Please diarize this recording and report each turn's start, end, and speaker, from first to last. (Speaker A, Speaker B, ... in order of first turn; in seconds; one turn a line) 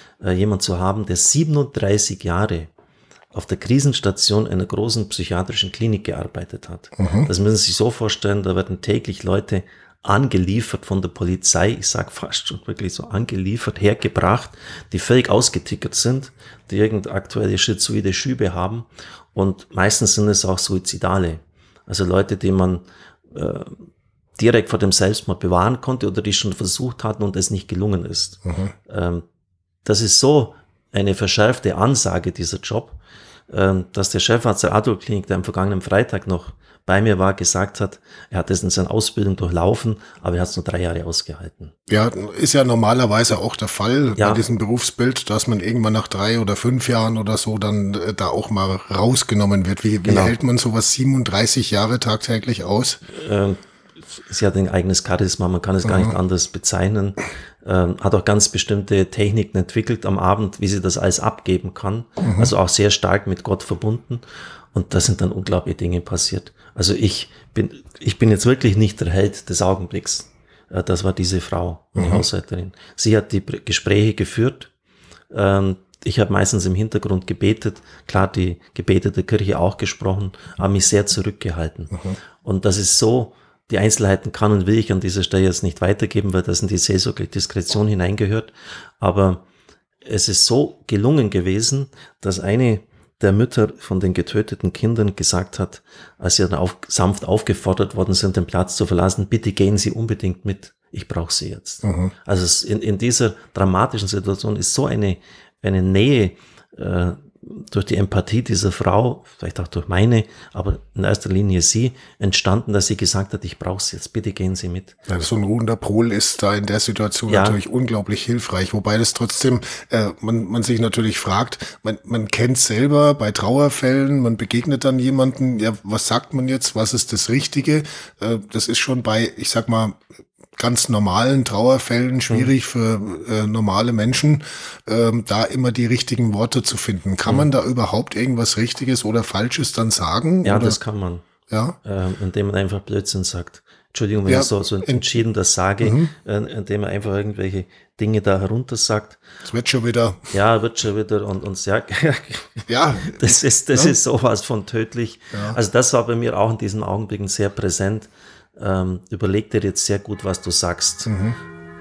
Speaker A: 0.2-2.7
Speaker A: 3.3-29.2
Speaker B: 7.0-7.3
Speaker B: 28.4-28.7
Speaker A: 29.8-41.7
Speaker B: 41.9-53.0
Speaker A: 44.2-44.4
Speaker A: 50.0-50.3
Speaker A: 53.1-53.6
Speaker A: 54.1-64.2
Speaker B: 55.8-56.1
Speaker B: 62.2-62.5
Speaker A: 64.7-74.7
Speaker B: 72.0-72.2
Speaker A: 75.3-89.4
Speaker B: 81.9-82.2
Speaker A: 90.0-115.0
Speaker B: 101.8-102.1
Speaker B: 115.1-130.0
Speaker A: 117.3-117.6
Speaker B: 130.6-140.8
Speaker A: 140.4-141.3
Speaker B: 141.5-141.8
Speaker A: 141.8-149.2
Speaker B: 144.3-145.1
Speaker B: 145.8-146.1
Speaker B: 149.4-150.3
Speaker A: 150.3-161.1
Speaker B: 152.7-153.9
Speaker B: 155.3-155.6
Speaker B: 161.1-161.4